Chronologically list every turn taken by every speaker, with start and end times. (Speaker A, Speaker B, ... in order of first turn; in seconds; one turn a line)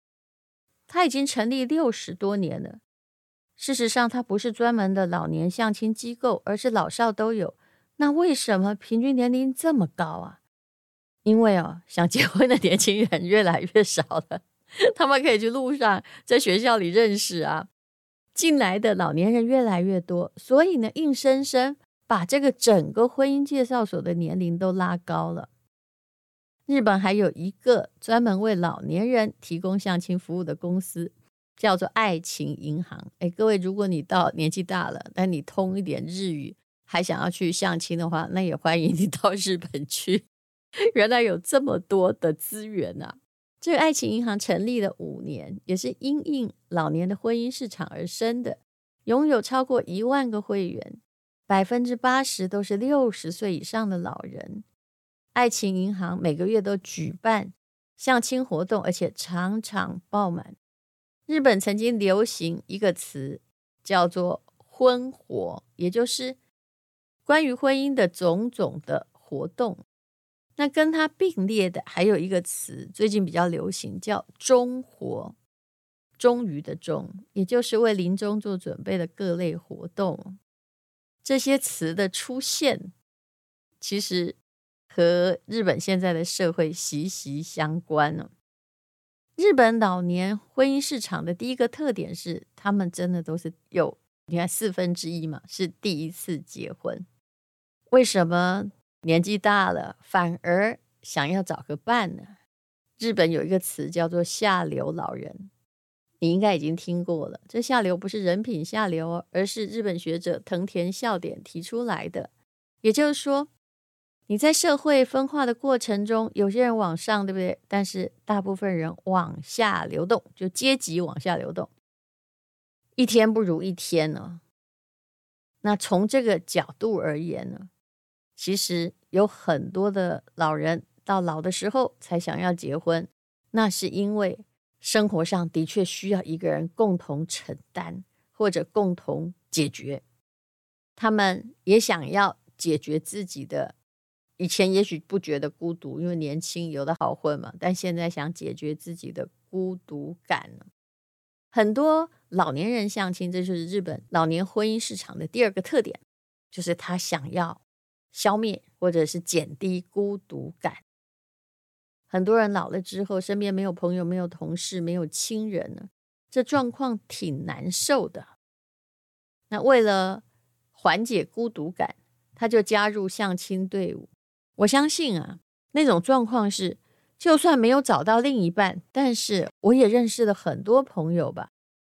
Speaker A: 0.9-2.8
Speaker A: 3.6-10.4
Speaker A: 11.2-17.7
Speaker A: 18.3-25.5
Speaker A: 26.7-40.3
Speaker A: 40.9-54.6
Speaker A: 55.3-60.6
Speaker A: 61.3-66.4
Speaker A: 67.2-69.8
Speaker A: 70.5-75.3
Speaker A: 76.2-80.4
Speaker A: 81.2-82.9
Speaker A: 83.8-84.4
Speaker A: 84.9-88.3
Speaker A: 89.4-97.0
Speaker A: 97.9-102.4
Speaker A: 103.0-105.5
Speaker A: 106.2-112.3
Speaker A: 112.8-113.5
Speaker A: 114.3-121.7
Speaker A: 123.0-124.4
Speaker A: 125.6-127.7
Speaker A: 128.3-140.0
Speaker A: 140.9-143.8
Speaker A: 144.4-150.7
Speaker A: 151.5-156.0
Speaker A: 156.5-157.6
Speaker A: 158.1-160.8
Speaker A: 162.1-168.3
Speaker A: 169.5-170.2
Speaker A: 170.7-181.5